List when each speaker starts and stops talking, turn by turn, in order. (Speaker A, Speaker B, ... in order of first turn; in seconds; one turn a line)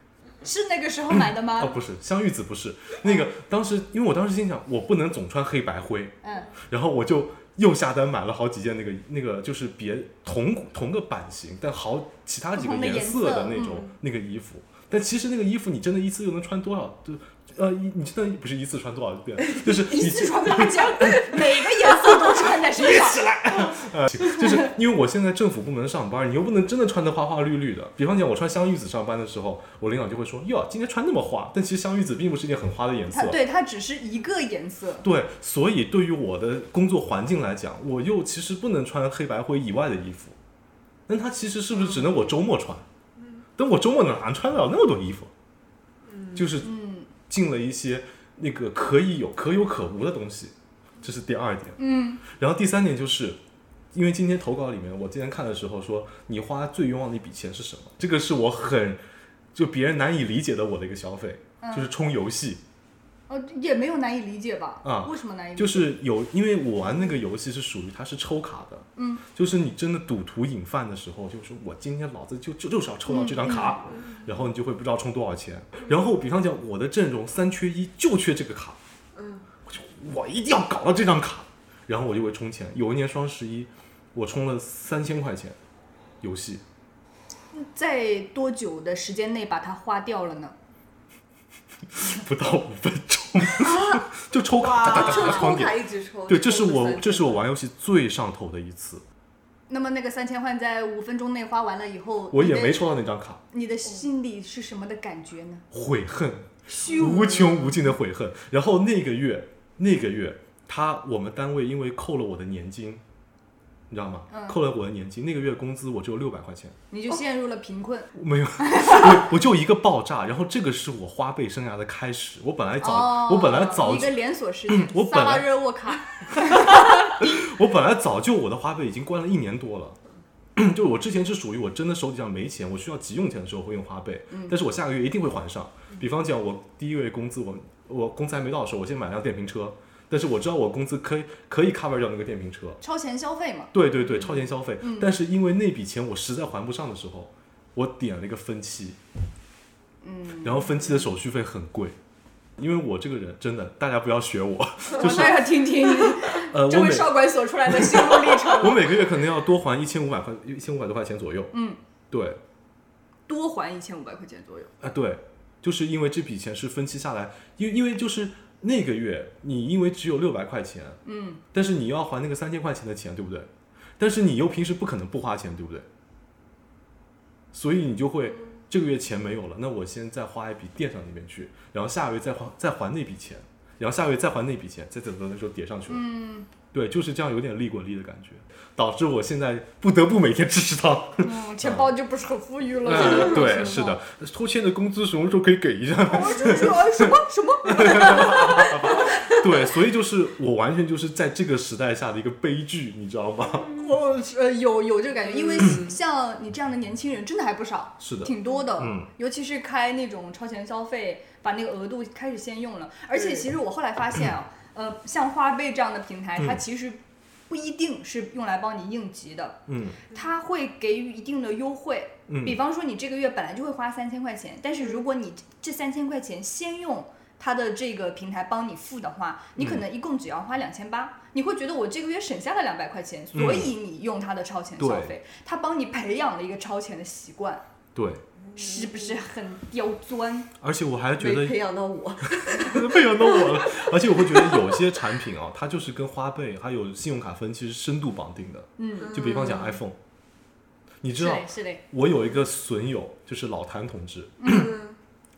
Speaker A: 0.4-1.8
Speaker B: 1.1-21.5
Speaker A: 6.2-6.5
Speaker A: 12.5-13.8
Speaker C: 13.6-13.8
Speaker A: 19.6-23.3
Speaker B: 22.2-33.4
Speaker A: 33.1-35.1
Speaker B: 35.0-40.4
Speaker B: 41.1-42.9
Speaker B: 43.6-45.3
Speaker C: 46.0-46.4
Speaker B: 46.3-46.7
Speaker A: 46.6-47.1
Speaker B: 47.3-53.4
Speaker A: 51.8-52.2
Speaker B: 53.9-59.0
Speaker B: 59.5-62.6
Speaker A: 61.6-61.9
Speaker A: 63.3-65.9
Speaker B: 64.8-78.8
Speaker A: 69.0-69.2
Speaker A: 73.1-73.8
Speaker C: 79.2-79.4
Speaker B: 79.7-85.5
Speaker B: 86.2-86.6
Speaker A: 87.5-90.5
Speaker B: 91.9-99.0
Speaker C: 93.6-97.4
Speaker A: 94.9-95.4
Speaker A: 99.7-102.8
Speaker B: 102.3-103.4
Speaker A: 103.5-105.6
Speaker B: 105.7-113.0
Speaker A: 106.7-107.7
Speaker B: 113.9-116.8
Speaker A: 114.3-114.6
Speaker A: 116.9-119.2
Speaker B: 118.1-125.5
Speaker A: 122.8-127.4
Speaker B: 126.3-130.0
Speaker B: 130.6-142.8
Speaker A: 134.3-134.6
Speaker A: 142.8-143.7
Speaker B: 143.7-149.0
Speaker A: 144.8-145.1
Speaker A: 150.0-150.7
Speaker B: 150.4-151.9
Speaker B: 152.6-161.5
Speaker A: 154.9-158.9
Speaker A: 161.5-161.8
Speaker B: 162.1-162.4
Speaker A: 163.3-164.7
Speaker B: 164.8-171.0
Speaker A: 171.0-171.4
Speaker B: 171.5-175.9
Speaker B: 177.5-186.0
Speaker A: 185.9-186.5
Speaker B: 186.7-191.9
Speaker A: 191.2-194.0
Speaker B: 192.8-203.7
Speaker C: 193.0-193.6
Speaker A: 196.1-199.4
Speaker A: 203.7-237.6
Speaker C: 205.5-205.8
Speaker B: 208.0-209.1
Speaker C: 213.1-213.4
Speaker B: 216.4-216.6
Speaker B: 219.7-220.0
Speaker B: 222.3-222.6
Speaker B: 229.6-229.8
Speaker B: 233.3-233.7
Speaker B: 234.8-235.1
Speaker B: 237.9-238.2
Speaker C: 238.4-239.2
Speaker A: 238.5-240.5
Speaker B: 240.6-241.6
Speaker C: 241.2-244.7
Speaker B: 242.4-250.0
Speaker A: 248.8-249.1
Speaker C: 249.0-249.8
Speaker B: 251.0-254.7
Speaker A: 251.2-251.8
Speaker C: 254.4-254.9